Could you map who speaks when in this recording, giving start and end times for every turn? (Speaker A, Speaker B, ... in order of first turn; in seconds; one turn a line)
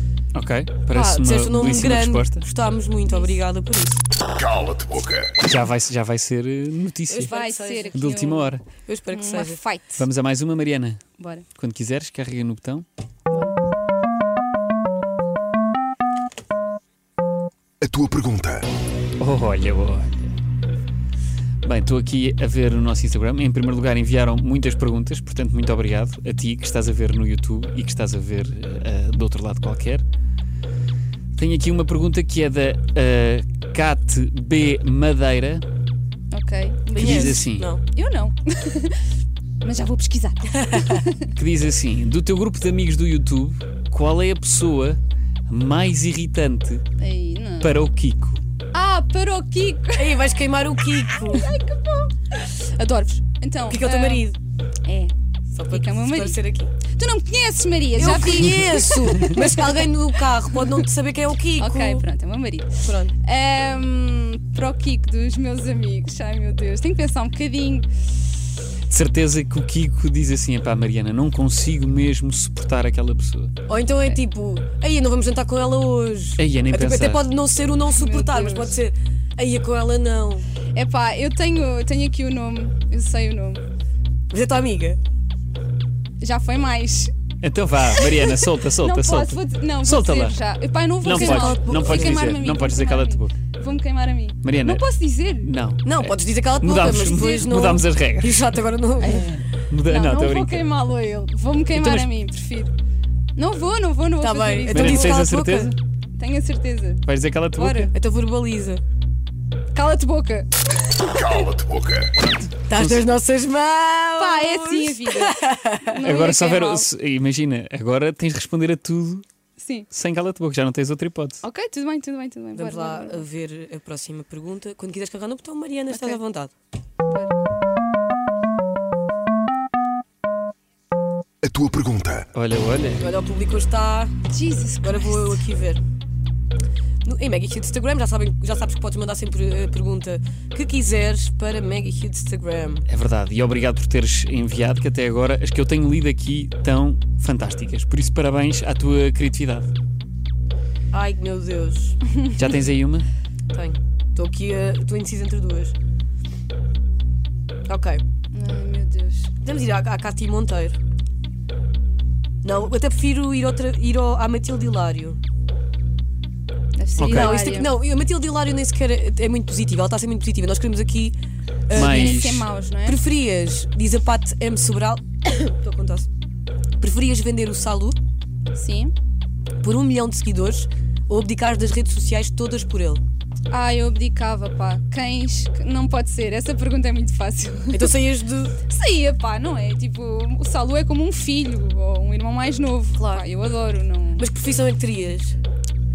Speaker A: 0.3-2.5
Speaker B: 0.9-4.0
Speaker C: 3.0-3.4
Speaker D: 4.5-5.3
Speaker A: 5.4-7.3
Speaker B: 7.1-8.1
Speaker C: 7.2-8.5
Speaker A: 7.9-8.6
Speaker B: 8.8-9.6
Speaker C: 9.1-10.1
Speaker A: 10.0-11.0
Speaker C: 11.2-11.4
Speaker A: 11.6-12.8
Speaker C: 13.3-13.6
Speaker D: 17.8-18.6
Speaker A: 19.2-20.4
Speaker A: 21.6-30.0
Speaker A: 31.4-35.6
Speaker C: 36.3-39.0
Speaker A: 37.0-37.7
Speaker B: 37.0-37.8
Speaker C: 39.6-41.3
Speaker A: 41.4-46.8
Speaker C: 47.0-47.8
Speaker A: 47.6-48.4
Speaker C: 48.7-54.3
Speaker B: 50.0-51.5
Speaker B: 53.7-54.4
Speaker C: 54.8-55.1
Speaker B: 55.5-56.7
Speaker C: 55.7-60.9
Speaker B: 58.0-62.0
Speaker C: 61.6-67.9
Speaker B: 62.8-63.1
Speaker A: 68.9-73.5
Speaker B: 73.7-80.5
Speaker A: 76.4-77.2
Speaker C: 77.9-78.8
Speaker C: 80.7-83.6
Speaker B: 84.3-85.0
Speaker C: 86.2-87.1
Speaker A: 87.4-90.4
Speaker C: 88.1-95.5
Speaker A: 91.0-93.3
Speaker B: 91.1-92.3
Speaker A: 94.4-94.8
Speaker A: 95.4-98.6
Speaker B: 95.8-99.4
Speaker C: 99.0-102.7
Speaker A: 99.5-100.6
Speaker A: 101.7-102.1
Speaker C: 103.3-105.2
Speaker B: 104.2-105.7
Speaker A: 104.7-105.8
Speaker C: 106.2-107.0
Speaker A: 107.0-107.9
Speaker C: 107.6-107.9
Speaker B: 107.9-108.8
Speaker C: 109.7-111.5
Speaker D: 111.4-112.1
Speaker A: 112.1-113.1
Speaker B: 112.7-115.9
Speaker C: 114.2-116.9
Speaker A: 116.0-119.2
Speaker C: 119.6-119.9
Speaker A: 119.9-121.4
Speaker C: 121.4-123.2
Speaker B: 122.5-126.5
Speaker C: 125.9-126.2
Speaker C: 127.1-127.3
Speaker D: 131.4-132.3
Speaker A: 132.3-133.1
Speaker B: 133.0-134.1
Speaker C: 134.3-135.5
Speaker B: 134.8-135.8
Speaker B: 137.0-142.8
Speaker A: 142.9-149.7
Speaker B: 150.9-152.0
Speaker A: 152.3-153.1
Speaker B: 153.5-155.7
Speaker B: 157.7-158.0
Speaker C: 158.3-159.3
Speaker B: 159.4-160.8
Speaker B: 162.4-165.2
Speaker C: 166.8-167.7
Speaker A: 167.0-167.4
Speaker B: 167.1-171.2
Speaker B: 171.7-172.2
Speaker C: 171.7-173.0
Speaker A: 171.7-172.4
Speaker B: 172.8-176.1
Speaker B: 176.8-178.0
Speaker C: 178.5-178.9
Speaker B: 179.6-183.0
Speaker C: 183.5-187.9
Speaker B: 187.7-188.5
Speaker C: 188.7-194.3
Speaker B: 192.9-193.2
Speaker B: 194.2-195.4